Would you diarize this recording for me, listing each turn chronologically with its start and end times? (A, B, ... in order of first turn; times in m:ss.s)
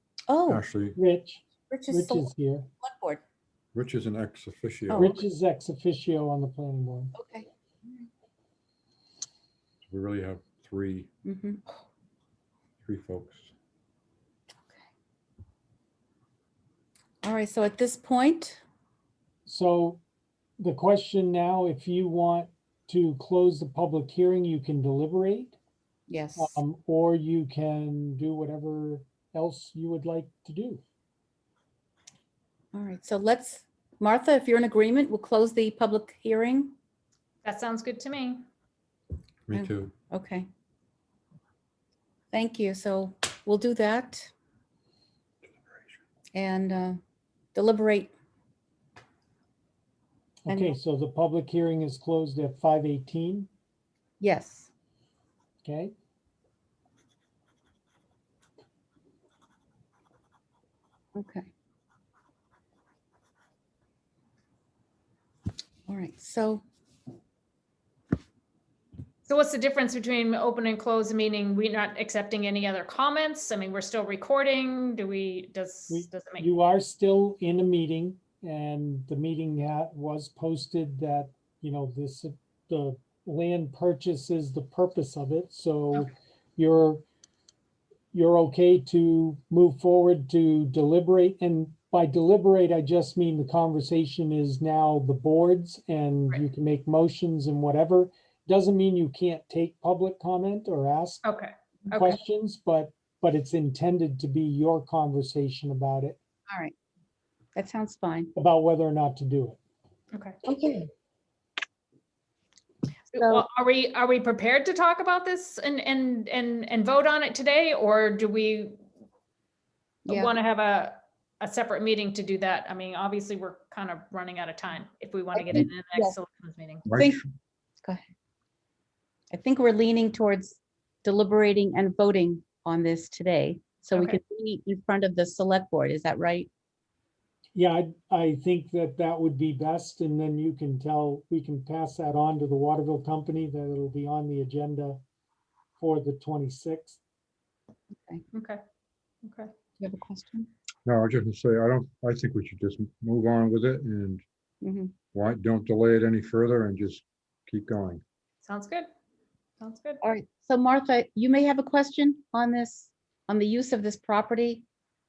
0:00.3-0:00.6 A
0:00.4-0:01.0 B
0:01.0-0:02.7 C
0:01.7-0:02.3 A
0:02.8-0:03.2 A
0:03.7-0:05.1 B
0:04.9-0:05.2 A
0:04.9-0:07.1 C
0:07.2-0:07.5 A
0:09.8-0:11.1 B
0:11.2-0:11.6 A
0:12.8-0:13.5 B
0:17.2-0:18.6 A
0:19.4-0:20.0 C
0:20.6-0:25.6 C
0:26.1-0:26.6 A
0:26.4-0:30.8 C
0:32.7-0:36.7 A
0:37.4-0:38.4 D
0:39.5-0:39.9 B
0:39.5-0:40.5 A
0:42.3-0:44.3 A
0:46.3-0:47.0 A
0:47.5-0:48.1 A
0:50.4-0:53.5 C
0:50.5-0:50.7 A
0:54.2-0:54.7 A
0:55.6-0:55.9 C
1:01.2-1:01.5 A
1:05.9-1:06.6 A
1:09.2-1:16.4 D
1:15.9-1:27.0 C
1:28.1-1:41.2 C
1:41.2-1:42.2 D
1:41.9-1:46.2 C
1:47.6-1:48.3 A
1:48.3-1:49.6 C
1:50.4-1:50.9 A
1:53.1-1:58.8 D
1:53.2-1:53.4 A
2:00.1-2:00.3 A
2:00.1-2:06.9 D
2:05.3-2:06.1 A
2:06.8-2:07.3 B
2:06.9-2:07.2 A
2:07.8-2:08.1 A
2:09.3-2:16.5 A
2:17.5-2:25.0 C
2:25.8-2:27.0 C
2:27.9-2:28.2 A
2:28.3-2:28.6 D
2:29.2-2:29.5 D
2:29.8-2:30.5 A
2:30.8-2:34.2 B
2:34.6-2:34.9 A
2:35.1-2:38.0 B
2:38.4-2:38.9 D
2:39.6-2:40.0 D
2:40.0-2:44.6 A